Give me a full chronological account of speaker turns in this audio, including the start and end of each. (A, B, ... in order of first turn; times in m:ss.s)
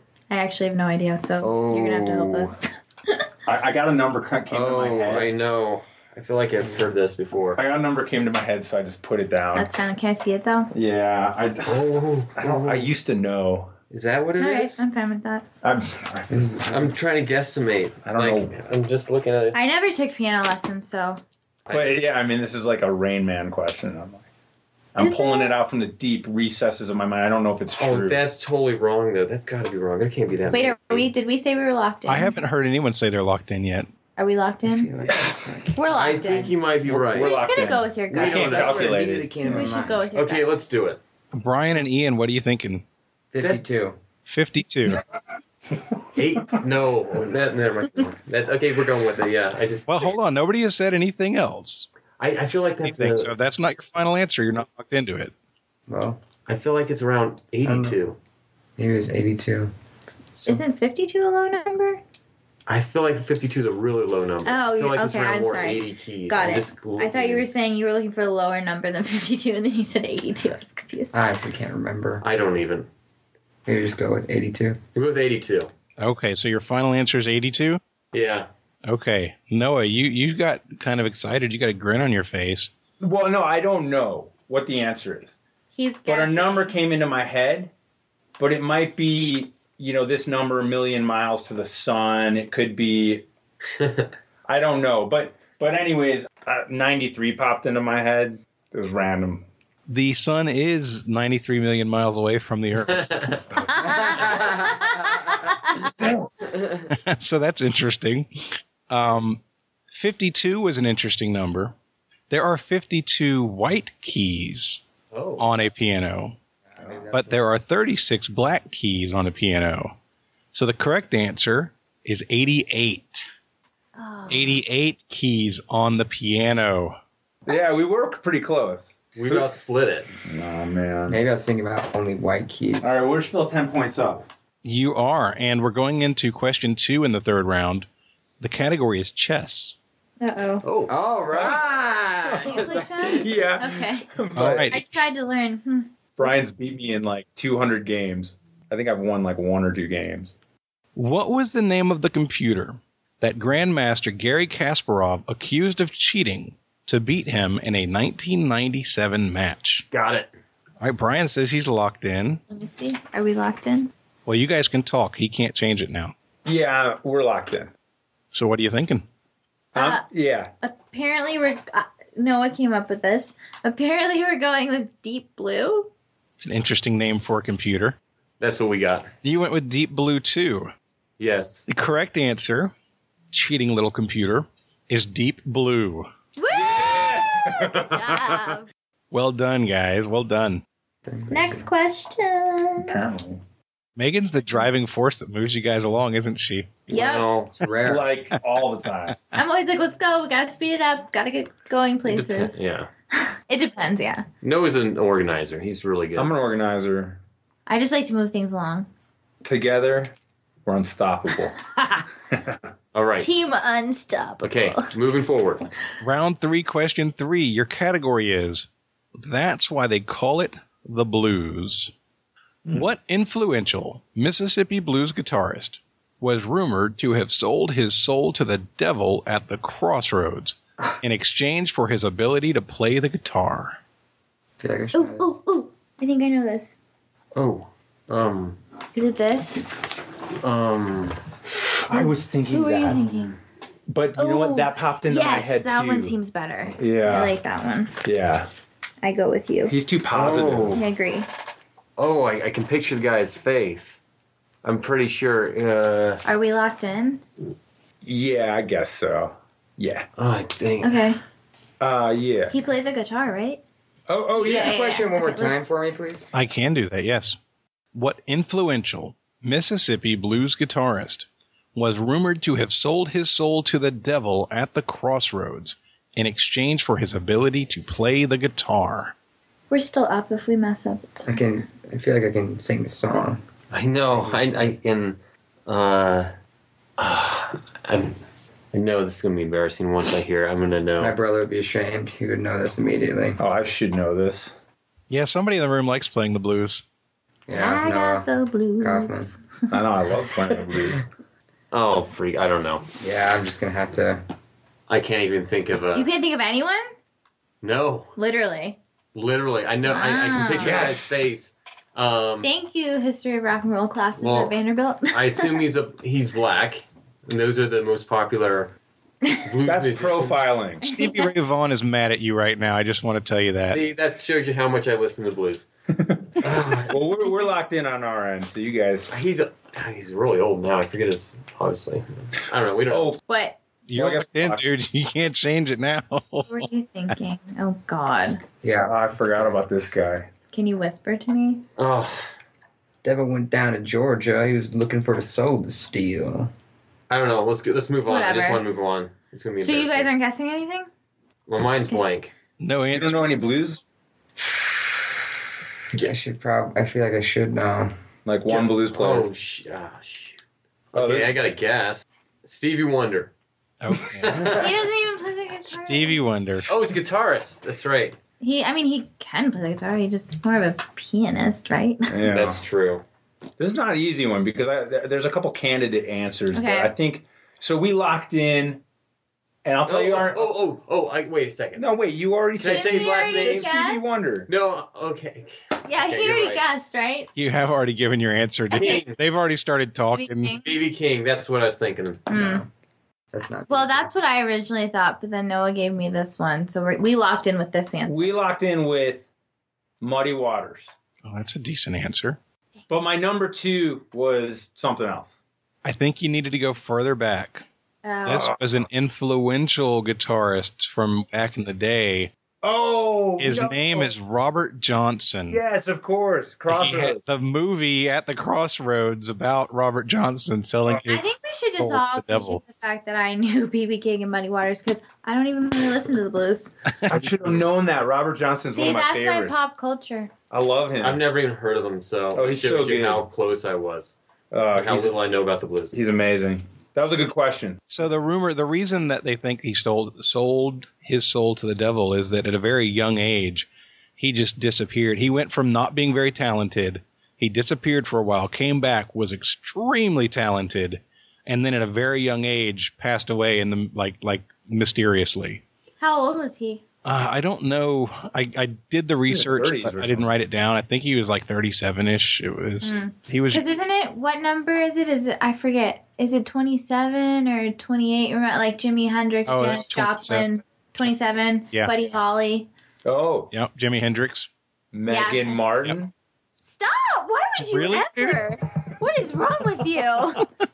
0:00.3-0:03.2 A
0:01.4-0:02.6 B
0:03.4-0:05.3 C
0:04.5-0:07.6 B
0:07.6-0:09.8 C
0:09.5-0:10.7 A
0:10.7-0:11.8 C
0:11.6-0:12.9 B
0:12.4-0:13.7 C
0:13.9-0:14.8 B
0:14.4-0:15.4 A
0:15.6-0:16.5 C
0:16.3-0:16.9 D
0:16.7-0:19.6 B
0:18.0-0:18.5 C
0:19.5-0:21.2 A
0:21.6-0:22.0 B
0:21.7-0:24.2 C
0:24.9-0:28.2 C
0:25.0-0:25.6 A
0:27.8-0:31.1 B
0:30.5-0:32.4 A
0:32.0-0:33.9 E
0:34.2-0:34.9 A
0:34.6-0:35.8 D
0:35.0-0:35.3 C
0:35.7-0:36.6 A
0:35.9-0:37.5 B
0:36.8-0:39.3 C
0:37.2-0:40.5 A
0:38.1-0:39.1 B
0:38.5-0:40.0 D
0:40.1-0:41.0 B
0:41.3-0:42.8 E
0:43.3-0:44.0 D
0:44.2-0:45.0 E
0:46.1-0:50.1 B
0:49.9-0:51.9 E
0:52.2-0:53.3 B
0:52.8-0:55.3 E
0:55.9-0:56.2 D
0:56.5-0:58.2 B
0:57.6-0:58.0 D
0:58.8-0:59.7 D
1:00.3-1:00.6 D
1:00.4-1:02.0 A
1:02.7-1:07.5 B
1:04.4-1:11.2 A
1:11.1-1:12.2 D
1:12.2-1:12.9 B
1:13.6-1:14.8 D
1:14.9-1:15.7 B
1:16.0-1:17.8 E
1:18.1-1:18.5 B
1:18.8-1:22.7 E
1:23.0-1:25.3 C
1:25.7-1:26.8 A
1:26.0-1:27.7 C
1:28.4-1:33.2 C
1:33.8-1:34.0 B
1:34.5-1:39.4 C
1:39.9-1:43.4 E
1:42.9-1:43.4 B
1:43.7-1:45.9 A
1:45.9-1:46.3 C
1:46.9-1:49.4 E
1:49.9-1:51.7 E
1:52.3-1:54.8 E
1:55.1-1:55.5 B
1:55.4-1:56.4 E
1:56.7-1:57.4 D
1:57.1-1:59.9 E
2:00.5-2:03.2 E
2:04.0-2:04.6 A
2:04.3-2:07.0 E
2:07.4-2:09.5 C
2:09.1-2:10.1 B
2:10.2-2:11.2 C
2:11.1-2:13.0 D
2:12.8-2:14.2 C
2:14.6-2:17.8 E
2:18.4-2:19.8 E
2:20.2-2:20.6 A
2:20.6-2:20.9 B
2:20.9-2:23.1 D
2:21.3-2:21.6 C
2:22.2-2:24.8 C
2:22.4-2:24.1 A
2:24.3-2:24.8 E
2:24.7-2:26.4 A
2:26.2-2:30.3 C
2:30.9-2:39.8 E
2:39.9-2:40.3 B
2:40.8-2:42.4 E
2:42.5-2:43.9 A
2:44.2-2:46.1 E
2:46.4-2:47.7 C
2:48.3-2:49.0 E
2:49.7-2:50.0 A
2:49.7-2:50.5 C
2:50.6-2:55.9 A
2:56.4-2:58.0 E
2:58.4-2:59.1 B
2:59.2-3:00.7 E
3:01.2-3:01.6 B
3:01.7-3:02.7 E
3:03.3-3:06.1 E
3:06.4-3:08.7 A
3:06.5-3:08.5 C
3:09.1-3:10.6 E
3:11.0-3:11.7 D
3:11.3-3:13.0 A
3:12.8-3:13.4 C
3:14.0-3:16.8 E
3:16.9-3:17.5 B
3:16.9-3:17.3 A
3:17.6-3:18.1 D
3:17.8-3:19.1 C
3:19.3-3:22.6 A
3:22.0-3:22.9 B
3:23.1-3:24.2 A
3:24.4-3:26.3 B
3:26.2-3:27.2 C
3:27.7-3:28.9 A
3:29.4-3:30.1 C
3:30.6-3:31.5 C
3:32.9-3:33.3 B
3:33.2-3:34.9 A
3:34.4-3:35.6 B
3:36.0-3:38.7 E
3:39.2-3:41.9 E
3:42.7-3:53.8 E
3:54.6-3:55.4 D
3:54.9-3:56.7 A
3:57.3-3:58.6 B
3:58.9-3:59.6 A
4:00.4-4:01.2 B
4:01.8-4:03.0 C
4:01.9-4:03.4 A
4:03.9-4:06.1 C
4:04.2-4:08.0 A
4:06.8-4:07.3 C
4:08.0-4:08.5 C
4:09.0-4:09.7 A
4:09.6-4:10.8 C
4:10.1-4:10.8 B
4:10.7-4:11.3 A
4:12.0-4:14.0 B
4:14.6-4:16.2 B
4:16.2-4:17.2 A
4:18.0-4:20.0 C
4:20.2-4:21.0 B
4:20.8-4:21.2 A
4:21.8-4:22.5 C
4:22.5-4:23.6 A
4:24.1-4:24.7 C
4:24.3-4:25.8 A
4:24.4-4:26.3 D
4:26.3-4:27.4 E
4:27.9-4:39.1 E
4:39.7-4:41.4 A
4:41.2-4:43.4 D
4:43.7-4:46.3 B
4:44.1-4:44.7 D
4:47.0-4:48.2 B
4:48.7-4:51.2 B
4:51.0-4:53.4 D
4:53.4-4:54.5 C
4:55.1-4:56.8 E
4:57.5-4:59.3 D
4:57.5-4:59.4 A
4:59.7-5:01.0 C
5:01.7-5:02.8 B
5:03.0-5:04.2 D
5:04.9-5:06.1 B
5:05.9-5:06.9 A
5:07.6-5:08.1 B
5:08.2-5:08.8 A
5:09.1-5:12.5 B
5:09.8-5:10.9 A
5:10.5-5:11.2 C
5:12.4-5:15.6 A
5:14.2-5:14.6 B
5:15.1-5:18.7 B
5:19.4-5:20.5 B
5:19.6-5:20.8 C
5:20.8-5:23.8 E
5:20.9-5:21.3 A
5:23.6-5:25.7 B
5:26.4-5:29.1 C
5:26.4-5:27.0 B
5:29.1-5:33.2 B
5:32.9-5:33.2 C
5:33.3-5:33.6 A
5:33.8-5:37.1 E
5:33.9-5:34.6 C
5:36.5-5:38.4 A
5:38.6-5:39.6 D
5:38.8-5:40.2 C
5:40.5-5:41.6 A
5:41.8-5:42.3 B
5:43.0-5:46.5 D
5:47.1-5:50.1 B
5:48.0-5:48.6 A
5:49.6-5:50.9 A
5:51.5-5:52.3 B
5:52.6-5:53.4 E
5:52.9-5:53.8 C
5:56.0-5:57.9 D
5:58.2-5:59.3 C
5:58.5-6:00.4 B
6:00.9-6:03.3 B
6:00.9-6:01.3 C
6:03.8-6:04.6 E
6:04.0-6:04.7 B
6:04.5-6:06.3 A
6:05.6-6:06.7 E
6:06.7-6:08.2 B
6:08.4-6:12.3 A
6:12.1-6:12.6 C
6:12.2-6:13.0 B
6:13.6-6:18.8 C
6:16.5-6:16.9 A
6:19.6-6:20.5 C
6:19.8-6:21.9 B
6:21.8-6:24.5 C
6:22.6-6:23.7 B
6:22.6-6:24.0 A
6:24.5-6:26.6 B
6:25.8-6:27.3 A
6:27.3-6:30.6 E
6:28.7-6:29.2 B
6:28.7-6:29.0 A
6:30.1-6:30.8 A
6:30.6-6:32.3 B
6:32.3-6:32.6 A
6:32.3-6:32.7 D
6:33.3-6:34.1 D
6:33.7-6:38.3 A
6:38.0-6:39.3 C
6:40.0-6:40.9 C
6:41.2-6:42.4 E
6:42.9-6:45.4 C
6:45.8-6:47.6 E
6:48.0-6:48.5 A
6:48.2-6:52.3 E
6:48.3-6:48.6 C
6:52.6-6:54.1 C
6:53.4-6:55.6 E
6:55.5-6:57.2 C
6:56.7-7:02.6 E
7:01.0-7:06.7 A
7:06.9-7:07.5 E
7:07.1-7:09.6 C
7:08.7-7:10.3 A
7:10.5-7:11.2 C
7:11.0-7:14.2 B
7:12.3-7:13.2 C
7:14.5-7:15.2 C
7:14.7-7:16.0 B
7:15.9-7:17.8 C
7:17.9-7:35.6 E
7:36.0-7:36.8 A
7:37.0-7:43.6 E
7:39.3-7:40.3 C
7:42.8-7:52.7 A
7:49.5-7:50.6 E
7:53.0-7:53.5 C
7:53.5-7:54.5 E
7:54.9-7:56.1 C
7:55.1-7:55.7 A
7:56.6-8:00.4 A
7:57.5-7:58.5 E